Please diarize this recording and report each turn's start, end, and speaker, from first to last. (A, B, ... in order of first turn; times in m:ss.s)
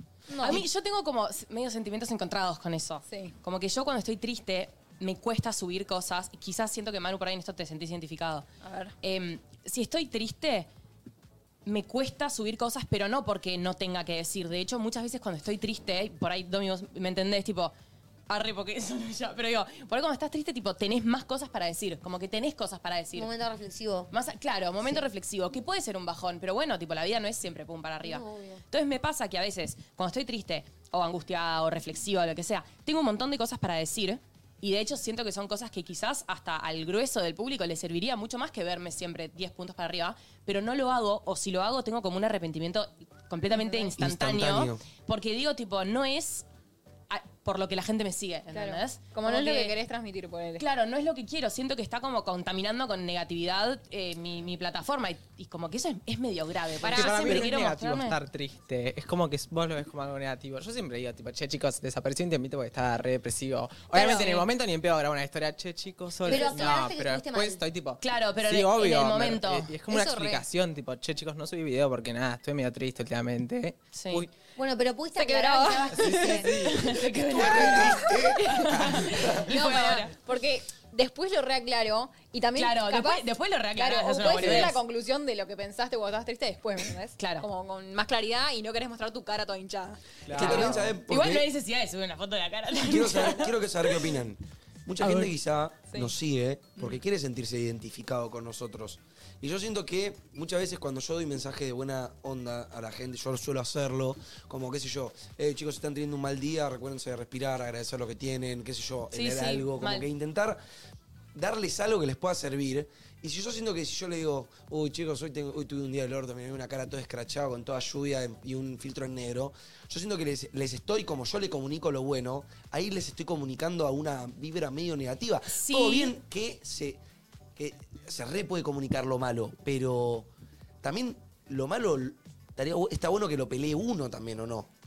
0:00.3-0:00.7 A
0:00.4-0:08.5 B
0:03.1-0:03.4 A
0:08.6-0:09.0 A
0:09.0-0:10.7 B
0:11.7-0:17.7 B
0:18.3-0:23.3 B
0:23.2-0:24.1 C
0:24.1-0:46.4 B
0:28.0-0:28.6 C
0:43.5-0:43.9 A
0:44.0-0:44.8 D
0:47.1-0:49.7 B
0:48.5-0:50.7 A
0:50.6-0:58.2 B
0:56.8-0:57.5 A
0:56.8-1:14.3 E
1:03.9-1:04.4 A
1:04.1-1:04.4 B
1:06.3-1:07.6 C
1:08.0-1:10.2 B
1:09.9-1:10.4 A
1:13.9-1:14.3 B
1:14.6-1:16.6 C
1:15.2-1:16.4 A
1:16.0-1:16.7 E
1:16.6-1:20.1 B
1:17.3-1:19.4 D
1:17.4-1:18.4 A
1:19.2-1:30.7 A
1:22.6-1:24.8 B
1:27.2-1:27.5 B
1:30.3-1:30.9 E
1:30.3-1:31.5 D
1:30.3-1:33.5 B
1:32.8-1:50.6 D
1:35.0-1:35.3 B
1:49.1-1:50.1 B
1:51.3-2:07.0 D
2:05.5-2:06.2 B
2:07.6-2:10.3 D
2:10.8-2:14.7 D